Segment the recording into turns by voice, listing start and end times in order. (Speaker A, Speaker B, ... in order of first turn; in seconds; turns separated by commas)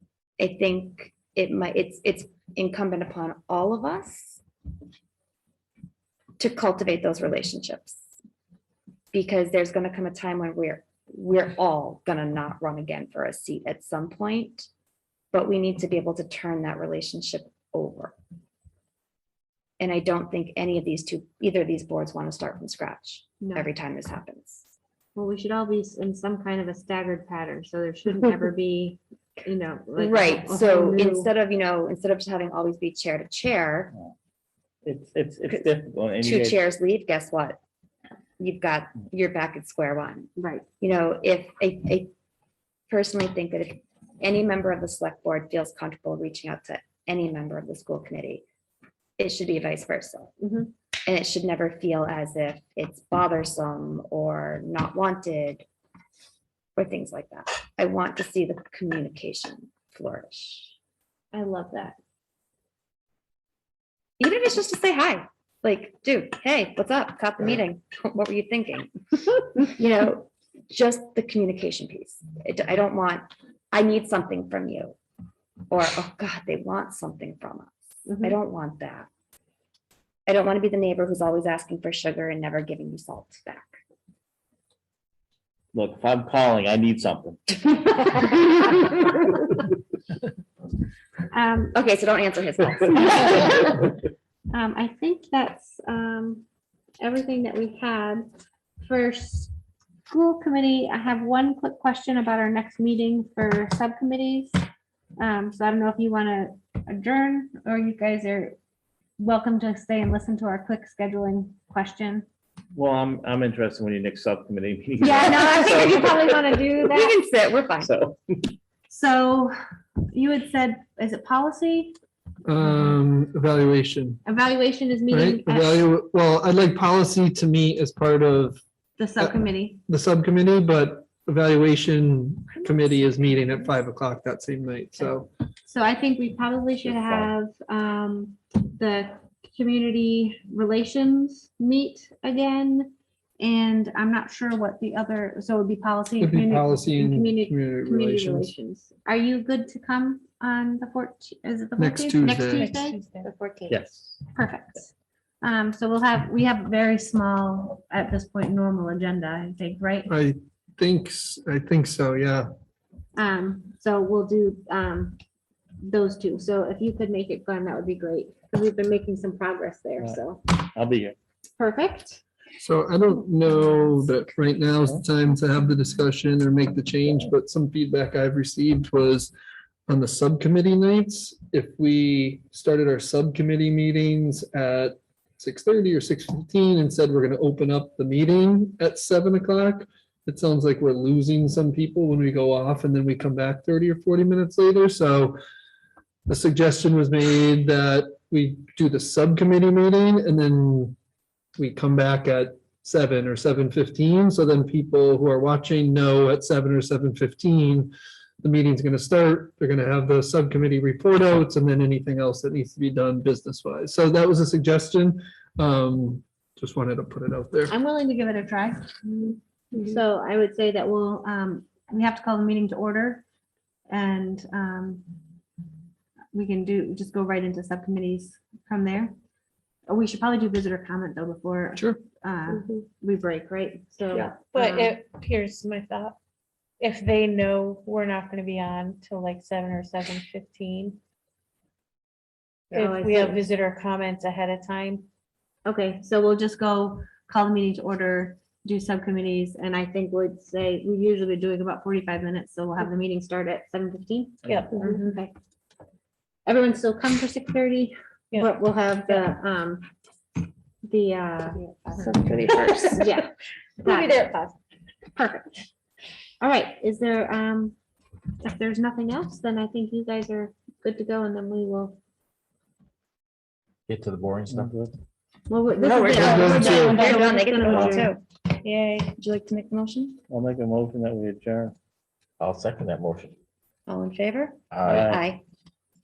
Speaker A: 0.4-4.4, Speaker A: 6.4-8.0, Speaker A: 9.1-14.7, Speaker A: 15.3-18.1, Speaker A: 19.8-24.7, Speaker B: 23.4-23.7, Speaker B: 25.1-31.3, Speaker A: 30.0-33.9, Speaker C: 34.8-36.6, Speaker A: 35.5-37.6, Speaker A: 38.4-42.1, Speaker B: 40.4-40.6, Speaker A: 42.9-48.4, Speaker A: 49.2-50.3, Speaker B: 50.4-50.7, Speaker A: 51.0-55.6, Speaker A: 56.8-60.7, Speaker B: 61.3-62.0, Speaker A: 64.2-75.0, Speaker A: 75.7-79.1, Speaker B: 78.1-78.3, Speaker A: 80.3-83.7, Speaker C: 85.7-87.6, Speaker A: 87.7-88.3, Speaker B: 91.3-91.7, Speaker A: 91.7-93.5, Speaker B: 93.1-93.8, Speaker B: 94.5-96.4, Speaker B: 97.0-98.3, Speaker B: 98.8-99.5, Speaker B: 100.1-104.6, Speaker B: 105.2-108.5, Speaker B: 109.2-112.2, Speaker C: 112.7-117.1, Speaker A: 115.0-118.0, Speaker C: 117.8-118.2, Speaker B: 118.9-119.5, Speaker B: 120.1-122.0, Speaker D: 122.5-124.2, Speaker B: 124.2-125.9, Speaker D: 125.1-128.6, Speaker B: 129.0-129.8, Speaker D: 129.9-135.3, Speaker B: 135.7-153.8, Speaker E: 136.8-137.3, Speaker D: 146.2-148.5, Speaker D: 151.8-152.7, Speaker F: 152.2-153.3, Speaker C: 153.7-154.2, Speaker B: 154.3-160.1, Speaker D: 160.1-162.5, Speaker B: 163.1-165.2, Speaker B: 165.8-170.4, Speaker C: 170.0-171.2, Speaker B: 171.6-172.2, Speaker D: 172.6-179.3, Speaker D: 179.9-195.4, Speaker D: 196.3-200.9, Speaker D: 201.6-217.7, Speaker B: 217.7-223.2, Speaker B: 223.9-225.1, Speaker B: 226.3-229.1, Speaker B: 229.9-235.0, Speaker F: 234.2-236.2, Speaker F: 236.8-241.0, Speaker F: 242.7-245.0, Speaker B: 242.7-243.4, Speaker B: 245.6-255.3, Speaker F: 254.4-255.1, Speaker B: 256.4-259.9, Speaker F: 258.3-258.6, Speaker B: 260.8-262.1, Speaker A: 261.9-263.2, Speaker F: 262.5-262.9, Speaker B: 262.9-263.3, Speaker F: 263.8-264.5, Speaker B: 263.8-264.3, Speaker B: 265.1-265.5, Speaker B: 266.4-267.8, Speaker B: 268.4-272.0, Speaker E: 273.9-274.7, Speaker C: 274.5-274.9, Speaker B: 275.5-278.1, Speaker A: 275.8-278.2, Speaker D: 276.1-277.1, Speaker C: 277.6-278.1, Speaker F: 278.6-279.1, Speaker A: 279.2-280.2, Speaker C: 280.3-281.7, Speaker E: 282.4-283.3, Speaker A: 283.9-285.4, Speaker E: 284.7-285.1, Speaker C: 284.8-285.2